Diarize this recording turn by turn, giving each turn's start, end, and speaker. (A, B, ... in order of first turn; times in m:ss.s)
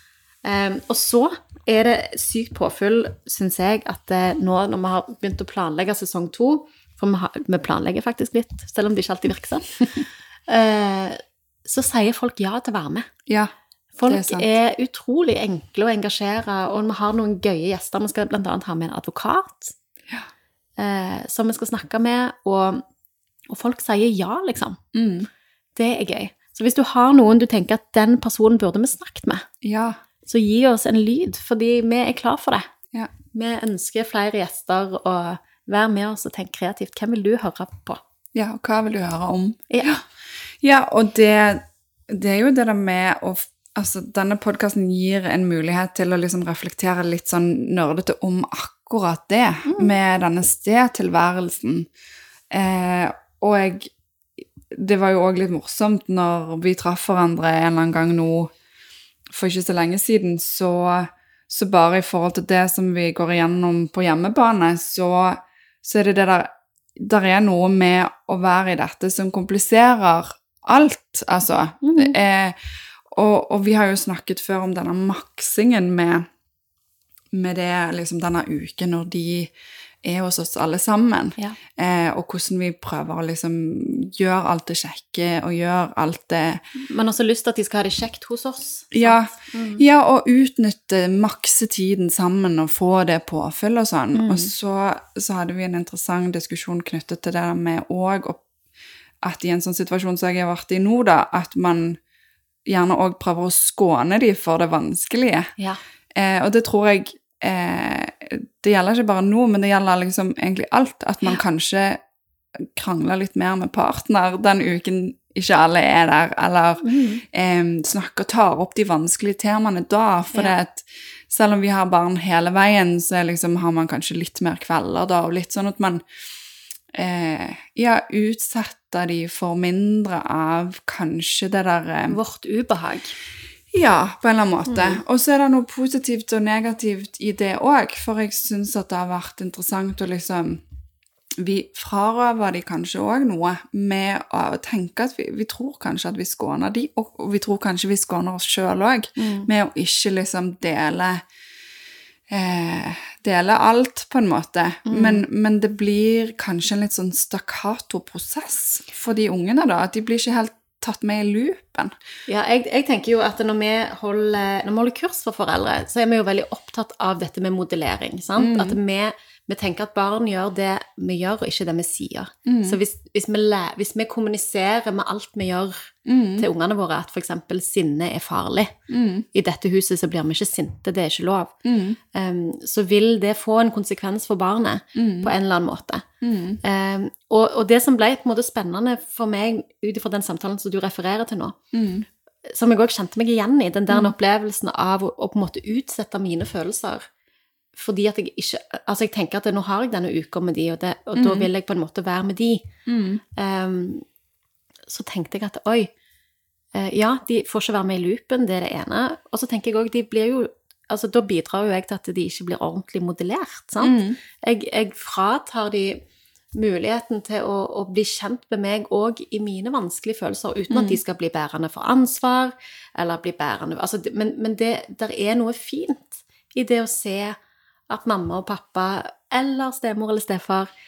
0:00.4-0:13.1 A
0:14.0-0:19.7 A
0:14.1-0:14.5 B
0:20.8-0:22.8 A
0:23.5-0:24.8 A
0:24.9-0:25.3 B
0:25.8-0:29.5 A
0:29.6-0:30.0 B
0:30.2-0:32.6 A
0:33.3-0:38.0 A
0:38.4-0:40.0 B
0:39.7-0:40.0 A
0:40.6-0:51.9 B
0:49.7-0:49.9 A
0:52.5-0:53.9 B
0:54.4-0:58.5 B
0:59.3-1:12.6 B
1:11.8-1:12.2 A
1:13.1-1:16.2 B
1:17.3-1:26.6 B
1:26.8-1:29.8 A
1:28.9-1:38.4 B
1:34.1-1:34.5 A
1:39.2-1:42.0 B
1:42.7-1:45.5 B
1:46.2-1:52.0 B
1:52.8-2:06.0 B
1:56.8-1:57.2 A
2:07.0-2:12.2 B
2:12.1-2:13.1 A
2:13.7-2:20.6 B
2:14.7-2:15.0 A
2:21.4-2:31.2 B
2:29.2-2:29.5 A
2:32.3-2:41.9 B
2:34.9-2:35.3 A
2:42.3-2:58.8 A
2:48.4-2:48.8 B
2:52.5-2:52.8 B
2:56.1-2:56.5 B
2:58.9-2:59.3 B
2:59.3-3:01.5 A
3:01.6-3:02.0 B
3:02.1-3:06.0 A
3:05.0-3:05.3 B
3:06.2-3:06.6 B
3:06.6-3:11.6 A
3:11.7-3:12.1 B
3:12.5-3:17.0 A
3:13.9-3:14.1 B
3:17.7-3:22.7 A
3:21.2-3:21.5 B
3:22.9-3:23.2 B
3:23.4-3:24.0 A
3:24.9-3:25.9 A
3:26.8-3:36.0 A
3:33.8-3:34.2 B
3:36.6-3:47.4 A
3:40.7-3:41.0 B
3:47.9-3:50.7 A